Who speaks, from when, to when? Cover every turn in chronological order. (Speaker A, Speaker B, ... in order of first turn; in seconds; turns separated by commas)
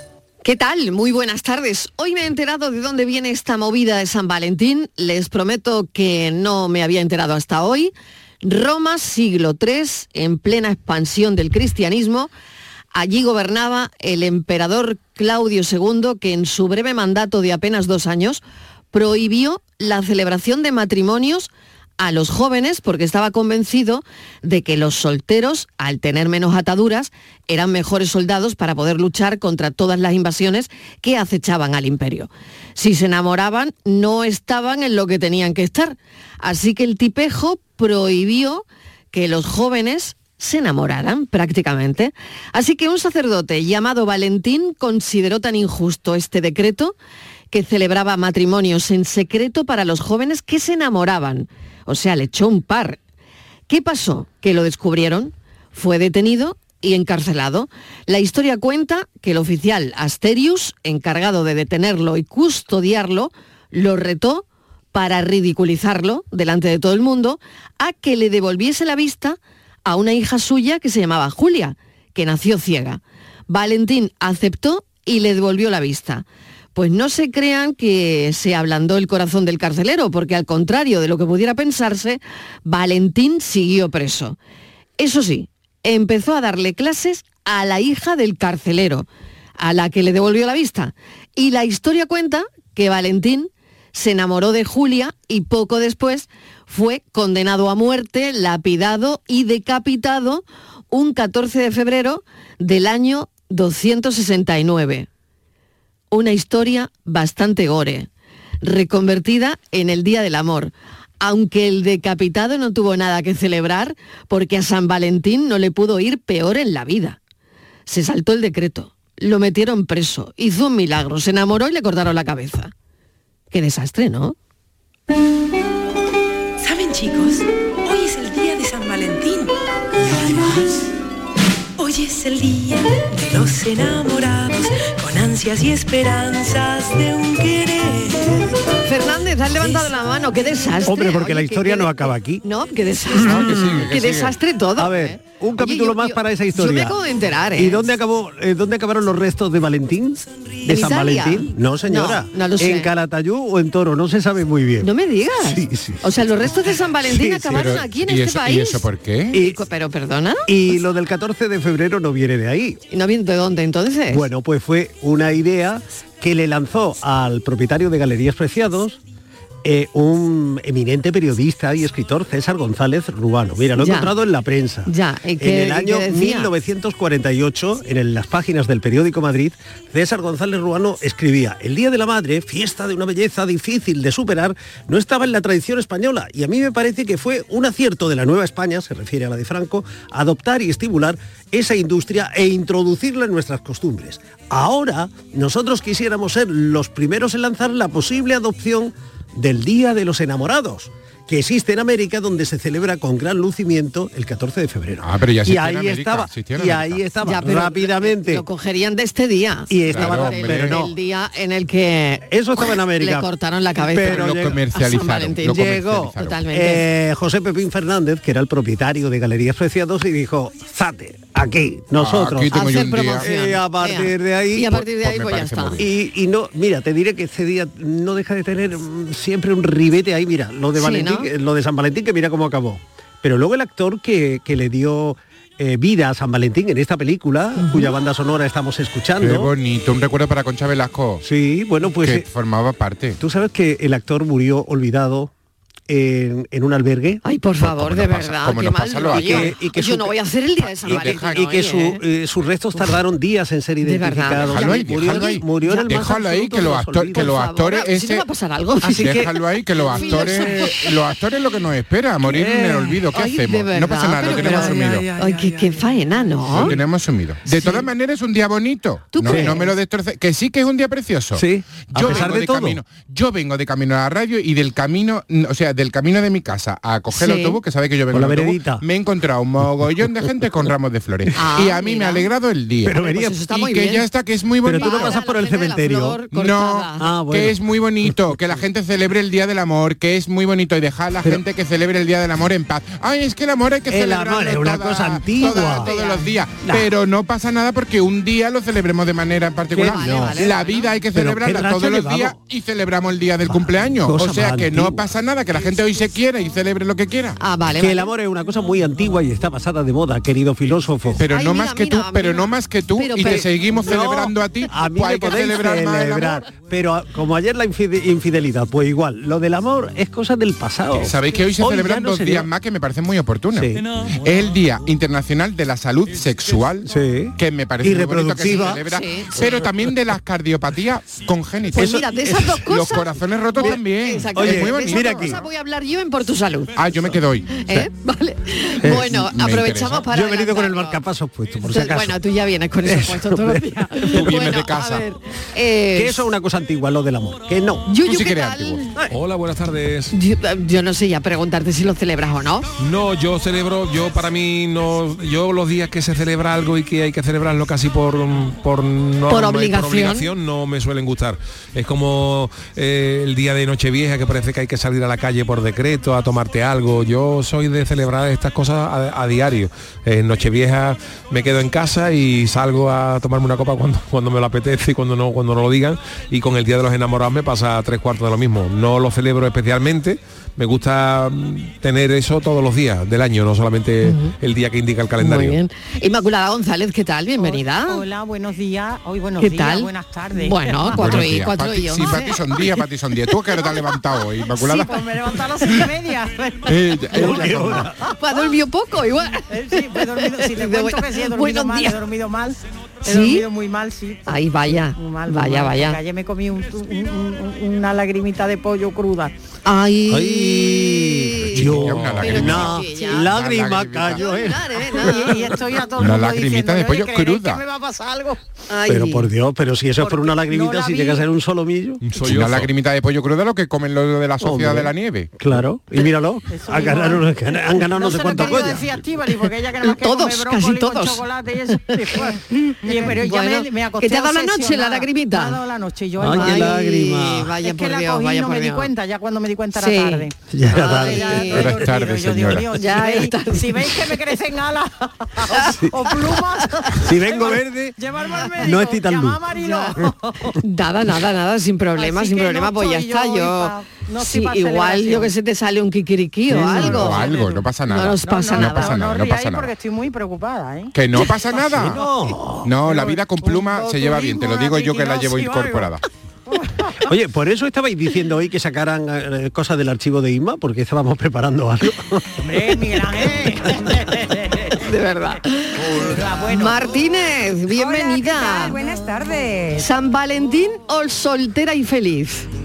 Speaker A: 0.4-12.3, Speaker A: 12.9-47.0, Speaker A: 47.5-53.0, Speaker A: 53.7-84.4, Speaker A: 85.0-89.1, Speaker A: 89.6-105.1, Speaker A: 106.1-108.1, Speaker A: 108.6-117.2, Speaker A: 117.9-122.7, Speaker A: 123.5-124.4, Speaker B: 126.6-130.8, Speaker B: 131.8-138.5, Speaker A: 138.8-147.9, Speaker C: 140.8-142.4, Speaker D: 143.1-144.4, Speaker C: 143.2-143.9, Speaker C: 144.8-147.0, Speaker C: 147.6-154.9, Speaker A: 150.7-152.9, Speaker A: 154.8-160.5, Speaker C: 155.4-157.9, Speaker D: 157.5-159.4, Speaker C: 159.3-159.6, Speaker C: 160.5-162.8, Speaker A: 162.9-164.3, Speaker C: 164.1-169.0, Speaker C: 169.6-208.4, Speaker A: 173.8-174.1, Speaker A: 174.9-176.5, Speaker D: 205.0-207.0, Speaker A: 207.2-216.8, Speaker C: 209.7-210.9, Speaker D: 209.8-210.8, Speaker C: 212.3-214.7, Speaker D: 214.1-216.4, Speaker C: 215.5-215.8, Speaker C: 216.5-224.8, Speaker D: 222.0-223.3, Speaker A: 222.5-225.8, Speaker D: 224.7-225.9, Speaker C: 225.8-239.5, Speaker A: 230.8-231.3, Speaker A: 237.6-237.9, Speaker D: 239.2-241.2, Speaker C: 241.2-242.3, Speaker D: 242.0-243.2, Speaker C: 243.2-245.3, Speaker C: 245.9-247.2, Speaker A: 247.2-252.0, Speaker D: 247.6-249.6, Speaker C: 249.1-257.3, Speaker D: 250.7-251.4, Speaker A: 253.8-256.0, Speaker D: 254.4-258.3, Speaker A: 257.1-259.3, Speaker C: 258.8-259.3, Speaker D: 258.9-265.2, Speaker A: 259.9-260.8, Speaker C: 259.9-260.8, Speaker C: 262.4-262.9, Speaker A: 263.1-266.7, Speaker C: 266.5-266.8, Speaker D: 266.5-285.1, Speaker A: 269.1-269.7, Speaker C: 269.3-269.6, Speaker C: 271.4-272.8, Speaker A: 277.1-277.6, Speaker C: 278.1-278.8, Speaker A: 281.4-282.3, Speaker C: 282.9-283.5, Speaker A: 283.0-284.1, Speaker C: 284.7-288.6, Speaker A: 284.7-287.1, Speaker D: 286.3-307.4, Speaker C: 293.9-295.9, Speaker A: 295.4-296.2, Speaker C: 299.7-300.6, Speaker A: 299.8-300.8, Speaker C: 301.1-302.4, Speaker C: 303.5-305.0, Speaker A: 307.4-308.1, Speaker C: 307.8-311.2, Speaker D: 311.2-316.5, Speaker A: 311.2-313.5, Speaker C: 313.2-322.4, Speaker D: 320.9-335.4, Speaker C: 323.5-323.8, Speaker C: 326.9-329.9, Speaker A: 328.4-329.5, Speaker A: 331.8-336.8, Speaker C: 331.8-332.7, Speaker C: 334.4-335.4, Speaker D: 336.8-337.7, Speaker A: 337.6-341.0, Speaker C: 338.8-339.4, Speaker D: 339.0-340.1, Speaker C: 339.9-342.2, Speaker A: 341.7-346.3, Speaker C: 342.8-344.4, Speaker D: 344.1-345.1, Speaker C: 345.9-347.9, Speaker A: 347.9-349.0, Speaker D: 348.0-348.9, Speaker E: 349.1-350.1, Speaker A: 350.1-352.7, Speaker E: 352.8-385.6, Speaker A: 359.3-360.3, Speaker A: 384.0-384.4, Speaker A: 385.2-388.1, Speaker F: 387.4-391.3, Speaker A: 389.4-392.4, Speaker D: 390.9-395.9, Speaker F: 394.5-396.8, Speaker D: 396.7-397.9, Speaker C: 397.1-398.0, Speaker A: 397.1-397.4, Speaker A: 398.1-402.0, Speaker F: 399.5-409.4, Speaker A: 403.0-403.5, Speaker A: 404.3-406.0, Speaker A: 409.6-413.4, Speaker C: 410.1-414.9, Speaker D: 411.4-414.2, Speaker A: 414.1-415.6, Speaker F: 414.9-418.4, Speaker D: 416.0-417.6, Speaker A: 418.7-419.3, Speaker C: 418.9-422.0, Speaker F: 420.0-421.3, Speaker E: 422.0-422.7, Speaker D: 422.2-425.3, Speaker C: 424.4-429.0, Speaker F: 426.5-436.9, Speaker A: 429.8-431.2, Speaker A: 431.7-432.0, Speaker G: 432.3-433.1, Speaker A: 433.1-435.6, Speaker C: 436.2-437.5, Speaker A: 436.3-438.9, Speaker F: 437.6-450.5, Speaker A: 439.8-441.7, Speaker C: 440.5-441.8, Speaker D: 441.5-442.7, Speaker A: 442.7-444.2, Speaker C: 445.7-446.2, Speaker C: 447.0-447.9, Speaker A: 448.3-448.6, Speaker C: 448.6-449.5, Speaker A: 449.6-449.9, Speaker A: 450.6-457.3, Speaker F: 451.9-455.3, Speaker C: 456.5-457.2, Speaker F: 456.7-457.6, Speaker D: 456.7-459.7, Speaker A: 457.9-459.0, Speaker F: 458.2-461.3, Speaker D: 460.9-462.0, Speaker C: 461.5-462.7, Speaker D: 462.6-466.0, Speaker F: 462.9-465.9, Speaker C: 467.1-472.7, Speaker F: 472.4-477.1, Speaker A: 474.8-478.8, Speaker G: 477.7-479.9, Speaker A: 479.8-482.5